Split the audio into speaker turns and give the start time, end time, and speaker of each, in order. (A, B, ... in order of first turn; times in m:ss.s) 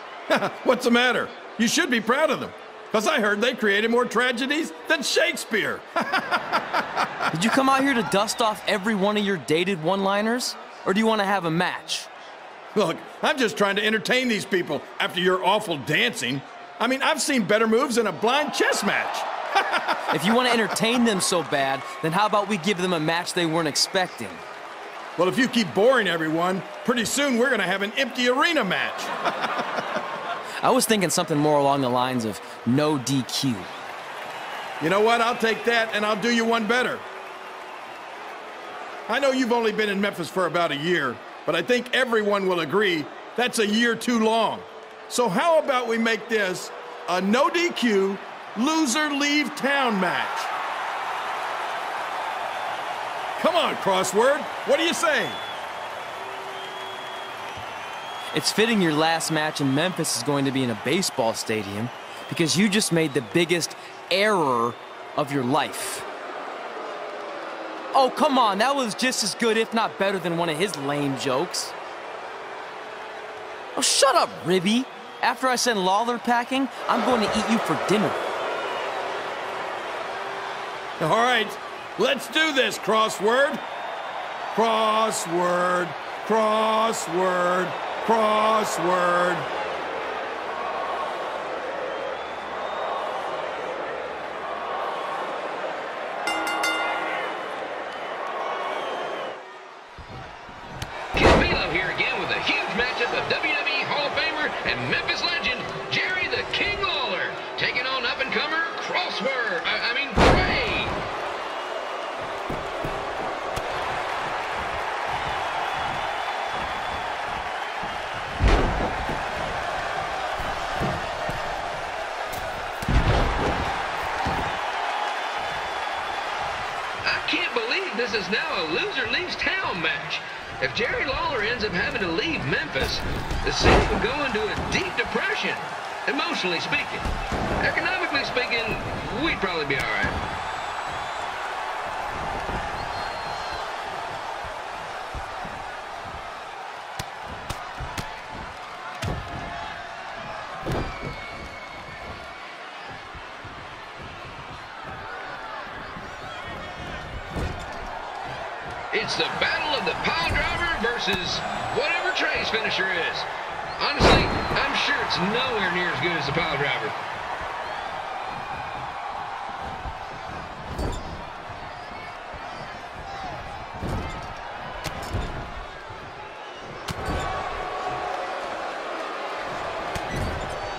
0:00.3-0:06.6 A
0:07.3-0:12.1 B
0:12.7-0:19.9 A
0:20.1-0:24.4 B
0:25.2-0:29.1 A
0:30.6-0:33.7 B
0:34.8-0:37.0 A
0:39.1-0:50.5 A
0:53.4-0:55.4 A
0:58.3-1:06.0 B
1:07.9-1:11.7 B
1:13.7-1:18.2 B
1:21.0-1:23.6 A
1:24.5-1:29.5 A
1:41.1-1:51.0 C
2:07.0-2:20.2 C
2:38.9-2:47.0 C